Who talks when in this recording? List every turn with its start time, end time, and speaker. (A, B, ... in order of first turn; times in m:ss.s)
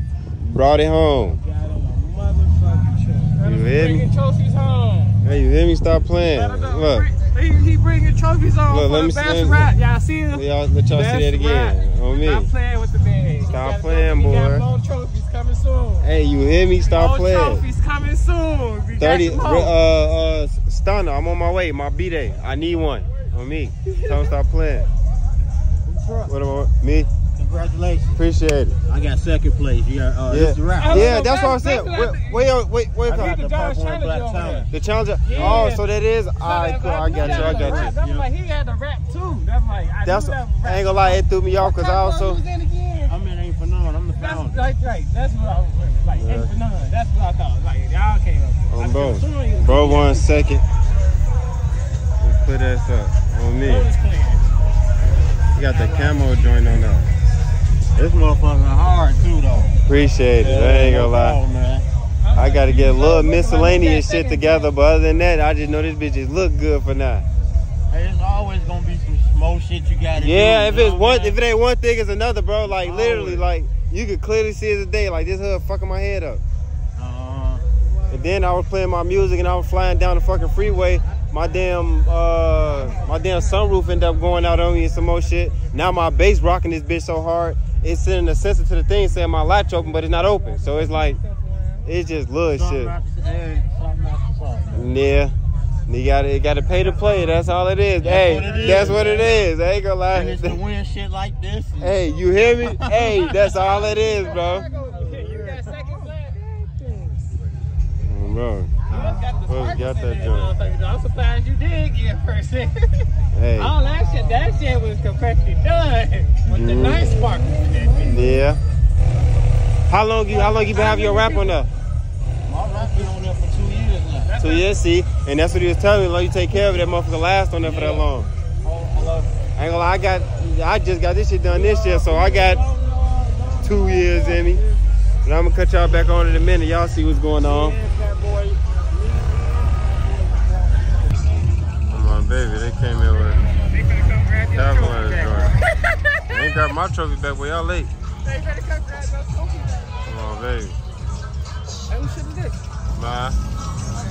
0:00.4-0:01.4 A
0:01.4-0:05.2 B
0:03.4-0:04.0 A
0:05.2-0:07.1 A
0:06.3-0:16.1 B
0:08.7-0:09.7 A
0:10.3-0:12.5 A
0:13.5-0:14.6 A
0:16.0-0:17.6 A
0:16.8-0:19.8 B
0:19.0-0:24.9 A
0:23.9-0:24.3 B
0:25.9-0:26.3 C
0:26.2-0:27.1 A
0:27.4-0:28.2 C
0:28.2-0:28.8 A
0:28.9-0:31.2 C
0:30.3-0:33.3 A
0:30.8-0:32.6 B
0:33.1-0:34.7 C
0:33.1-0:34.7 B
0:34.7-0:37.9 A
0:35.2-0:35.8 B
0:36.4-0:43.1 B
0:37.1-0:38.2 C
0:40.0-0:42.4 A
0:43.1-0:44.6 C
0:44.2-0:50.4 B
0:46.1-0:46.5 A
0:48.7-0:50.6 A
0:52.2-0:53.9 A
0:53.6-0:54.5 B
0:55.5-0:57.1 A
0:55.7-0:56.8 B
0:57.9-0:59.7 C
0:59.9-1:01.4 A
1:00.4-1:01.9 C
1:02.2-1:04.7 B
1:02.3-1:07.2 A
1:07.9-1:11.4 C
1:10.1-1:16.4 A
1:12.7-1:13.5 C
1:17.0-1:17.6 C
1:18.1-1:31.2 A
1:30.7-1:31.6 B
1:31.8-1:32.9 A
1:32.5-1:35.1 C
1:34.7-1:35.3 A
1:35.9-1:40.6 A
1:38.0-1:39.4 C
1:38.4-1:39.2 B
1:40.1-1:42.0 C
1:41.8-1:44.7 A
1:42.6-1:43.1 C
1:43.1-1:47.3 B
1:45.1-1:45.6 C
1:48.0-1:50.5 A
1:48.9-1:58.4 B
1:53.3-1:53.8 A
1:56.5-1:57.2 A
1:58.0-1:58.6 A
1:59.9-2:01.7 A
2:00.3-2:01.6 B
2:02.5-2:04.3 C
2:04.2-2:04.8 B
2:04.4-2:08.3 A
2:07.6-2:08.0 C
2:08.6-2:09.3 C
2:09.6-2:12.6 A
2:11.4-2:14.8 B
2:13.6-2:14.6 A
2:15.2-2:17.8 A
2:17.4-2:21.3 B
2:21.9-2:23.4 A
2:23.5-2:26.4 B
2:24.5-2:25.6 A
2:26.2-2:27.9 A
2:28.2-2:30.1 B
2:30.0-2:30.8 A
2:31.9-2:32.6 B
2:32.9-2:33.4 A